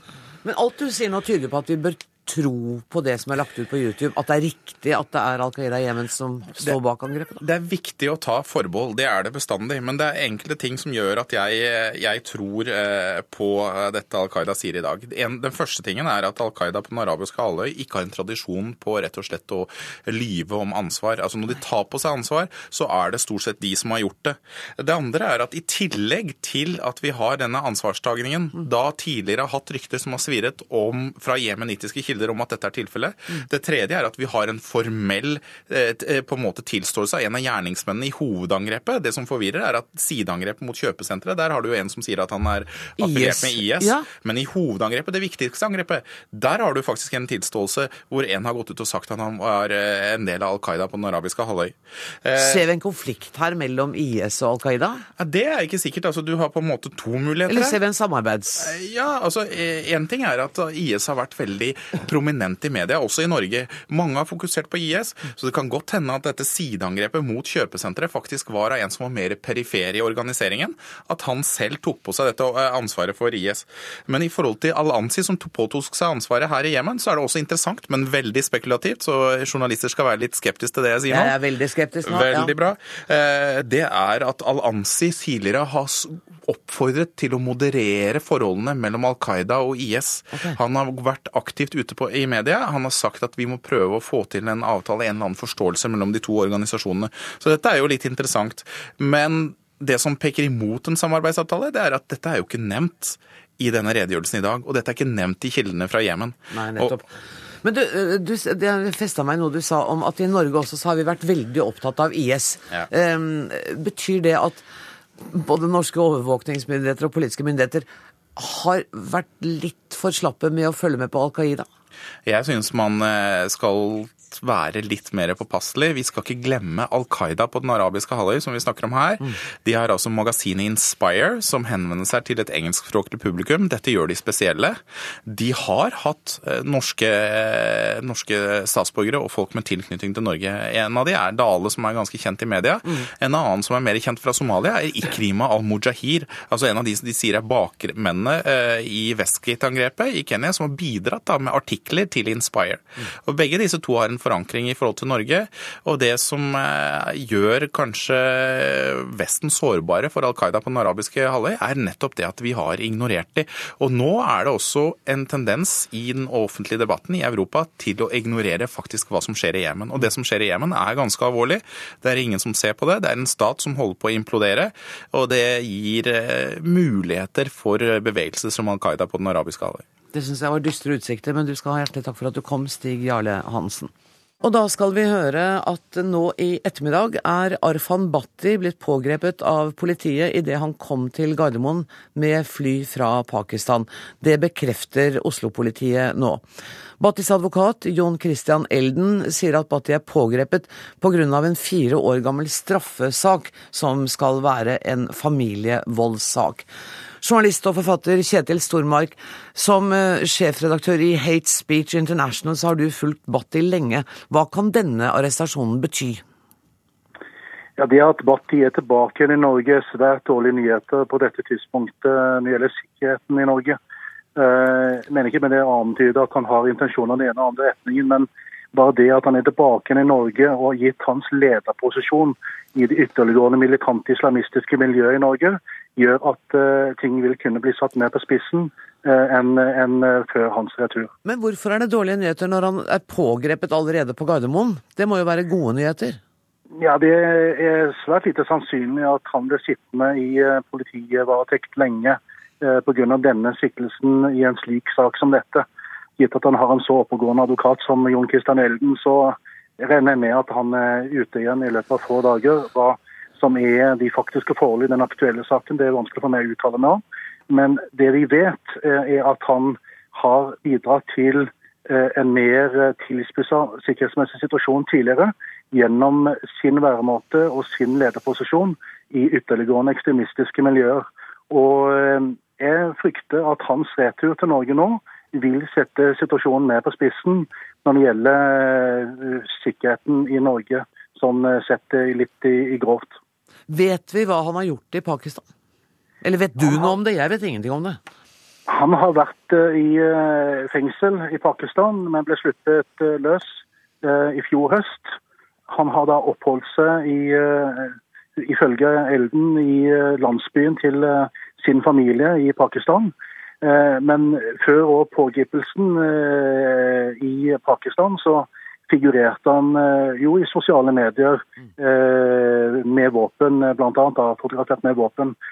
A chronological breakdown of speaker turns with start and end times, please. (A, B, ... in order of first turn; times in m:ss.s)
0:00.4-0:07.4 A
0:07.4-0:52.7 B
0:43.0-0:44.1 A
0:52.4-0:55.0 A
0:55.2-0:57.8 B
0:57.5-0:58.7 A
0:58.6-1:21.4 B
1:21.1-1:22.6 A
1:22.0-1:47.0 B
1:30.3-1:30.6 A
1:46.5-1:47.1 A
1:47.6-1:54.6 A
1:55.2-2:01.6 A
2:02.2-2:59.8 B
3:00.1-3:16.4 A
3:17.0-3:26.7 A
3:27.2-3:36.2 A
3:37.8-3:43.8 C
3:44.4-4:01.1 C
4:01.2-4:06.2 A
4:06.8-4:15.6 C
4:16.2-4:53.2 C
4:53.7-4:55.4 A
4:56.2-4:58.0 A
4:58.7-5:05.1 C
5:05.7-5:25.3 C